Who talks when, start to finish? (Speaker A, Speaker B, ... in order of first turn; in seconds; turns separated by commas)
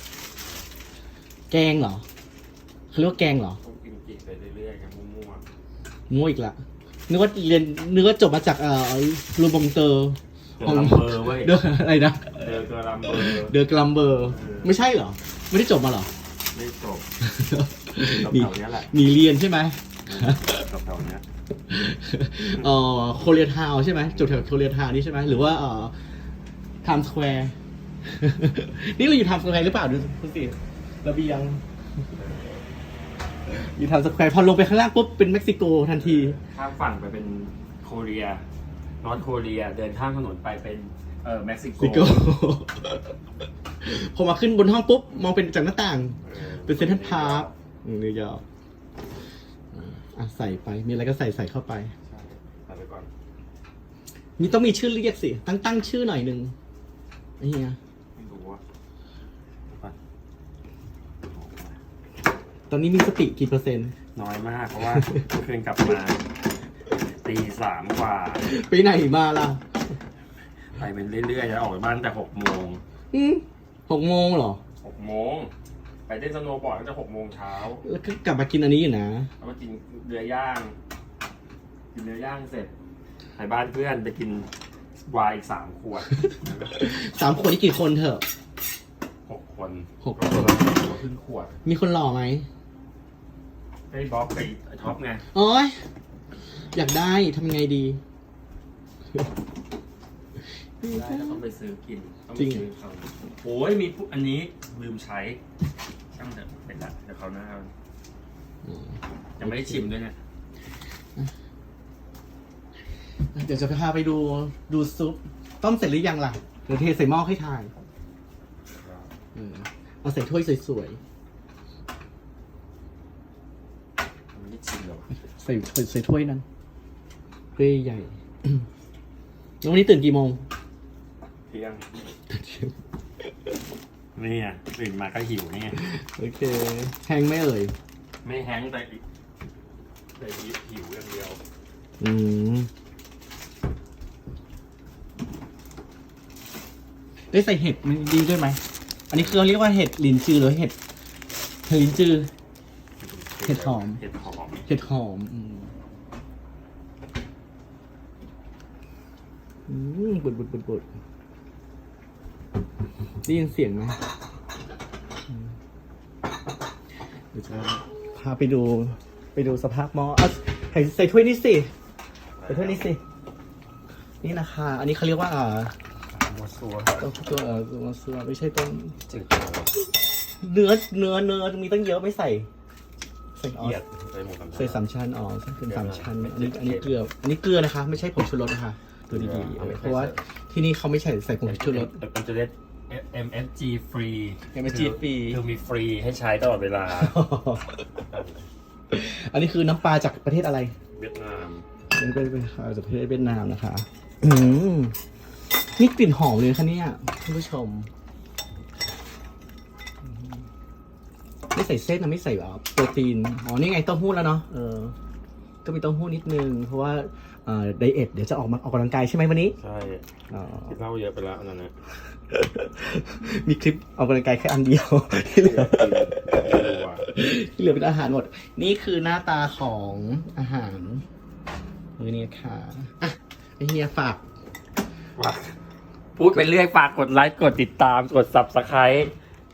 Speaker A: 1.5-2.0, Speaker A: 2.9-3.6, Speaker B: 3.6-5.5, Speaker A: 6.1-12.5, Speaker B: 10.6-11.6, Speaker B: 12.4-13.6, Speaker A: 13.1-16.1, Speaker B: 14.3-14.8, Speaker B: 16.5-17.1, Speaker A: 17.2-20.6, Speaker B: 18.0-18.9, Speaker B: 20.1-21.2, Speaker A: 21.7-25.9, Speaker B: 24.1-24.5, Speaker A: 26.8-27.5, Speaker A: 28.1-31.6, Speaker B: 32.2-32.6, Speaker A: 33.5-36.4, Speaker B: 35.9-38.4, Speaker B: 39.0-42.3, Speaker A: 41.8-43.1, Speaker A: 43.8-48.4, Speaker B: 46.2-47.5, Speaker A: 49.7-51.9, Speaker B: 52.0-53.1, Speaker A: 54.4-56.5, Speaker A: 57.4-57.8, Speaker B: 58.2-58.6, Speaker B: 61.3-61.8, Speaker A: 62.7-64.0, Speaker B: 64.2-66.2, Speaker A: 64.9-65.2, Speaker B: 67.2-68.5, Speaker A: 68.4-69.6, Speaker B: 70.8-72.8, Speaker A: 73.1-74.6, Speaker B: 74.8-75.5, Speaker B: 76.1-77.8, Speaker A: 77.8-79.3, Speaker B: 79.4-80.8, Speaker B: 81.9-82.7, Speaker B: 83.4-84.5, Speaker B: 85.1-86.8, Speaker A: 86.7-88.3, Speaker B: 89.3-91.6, Speaker A: 90.0-90.6, Speaker A: 91.7-92.5, Speaker B: 93.9-95.2, Speaker A: 95.3-95.8, Speaker A: 96.7-98.0, Speaker A: 100.8-101.4, Speaker B: 100.9-105.4, Speaker A: 102.4-102.7, Speaker B: 106.1-107.7, Speaker A: 108.7-109.9, Speaker B: 109.4-110.2, Speaker A: 113.3-117.7, Speaker B: 118.7-119.1, Speaker A: 119.3-121.0, Speaker B: 124.3-125.1, Speaker A: 125.4-126.5, Speaker A: 127.6-128.6, Speaker A: 129.6-130.5, Speaker B: 131.5-131.9, Speaker A: 132.3-132.7, Speaker B: 134.2-135.8, Speaker A: 135.7-137.8, Speaker B: 138.2-139.0, Speaker B: 140.2-141.4, Speaker A: 142.0-142.7, Speaker A: 147.3-150.8, Speaker A: 151.7-152.3, Speaker B: 153.0-154.6, Speaker A: 153.4-154.0, Speaker A: 154.7-155.7, Speaker A: 159.7-160.9, Speaker A: 163.2-164.0, Speaker A: 167.3-171.7, Speaker B: 172.4-173.0, Speaker A: 172.5-173.0, Speaker A: 174.2-175.7, Speaker B: 176.1-177.0, Speaker A: 177.0-179.0, Speaker B: 179.1-179.8, Speaker A: 180.4-182.5, Speaker A: 183.4-183.8, Speaker B: 183.6-184.8, Speaker A: 184.6-192.0, Speaker B: 185.7-186.9, Speaker B: 189.1-190.2, Speaker B: 191.4-197.2, Speaker A: 194.5-195.4, Speaker A: 196.9-197.8, Speaker B: 198.1-198.5, Speaker A: 198.9-200.8, Speaker B: 200.9-201.7, Speaker A: 201.9-204.9, Speaker A: 205.8-207.9, Speaker A: 211.5-214.9, Speaker A: 215.6-219.6, Speaker B: 219.6-221.7, Speaker A: 220.3-220.8, Speaker A: 222.3-231.1, Speaker B: 225.4-227.1, Speaker A: 232.0-234.2, Speaker B: 235.2-235.6, Speaker B: 236.2-239.1